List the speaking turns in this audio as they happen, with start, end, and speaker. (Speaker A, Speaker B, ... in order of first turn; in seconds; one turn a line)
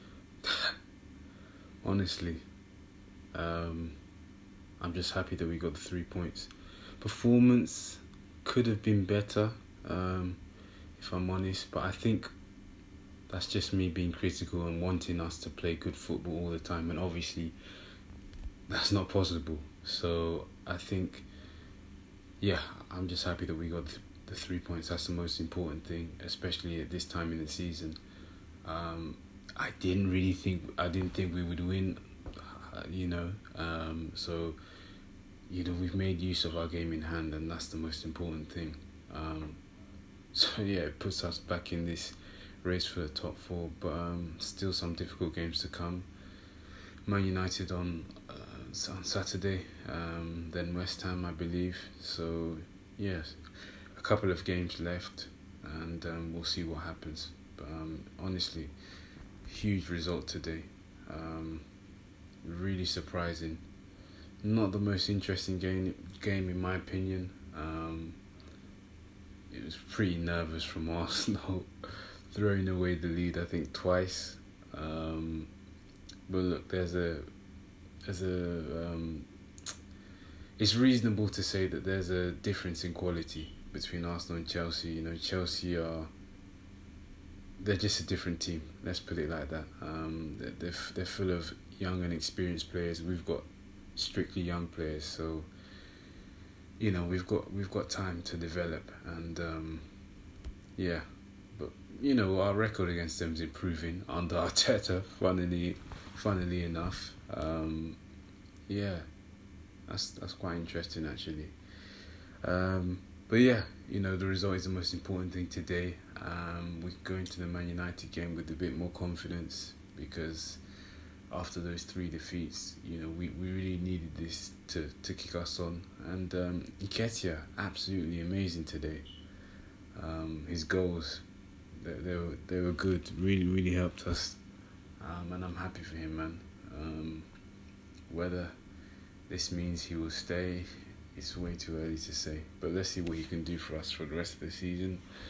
Speaker A: 0.4-0.7
Speaker A: 1.8-2.4
Speaker A: 3.3-4.0
Speaker A: 4.8-10.4
Speaker A: 11.0-12.3
Speaker A: 13.3-17.5
Speaker A: 18.7-21.2
Speaker A: 22.4-28.0
Speaker A: 28.6-34.6
Speaker A: 35.5-39.6
Speaker A: 40.3-46.1
Speaker A: 47.0-58.7
Speaker A: 59.4-61.6
Speaker A: 62.4-63.6
Speaker A: 64.4-68.2
Speaker A: 69.5-75.5
Speaker A: 76.3-77.3
Speaker A: 78.0-79.3
Speaker A: 80.6-86.1
Speaker A: 87.6-95.5
Speaker A: 96.8-99.9
Speaker A: 100.8-108.0
Speaker A: 108.7-109.1
Speaker A: 109.9-111.5
Speaker A: 112.4-120.6
Speaker A: 121.3-129.1
Speaker A: 129.9-131.2
Speaker A: 131.8-134.4
Speaker A: 135.0-137.3
Speaker A: 138.1-138.5
Speaker A: 139.3-145.0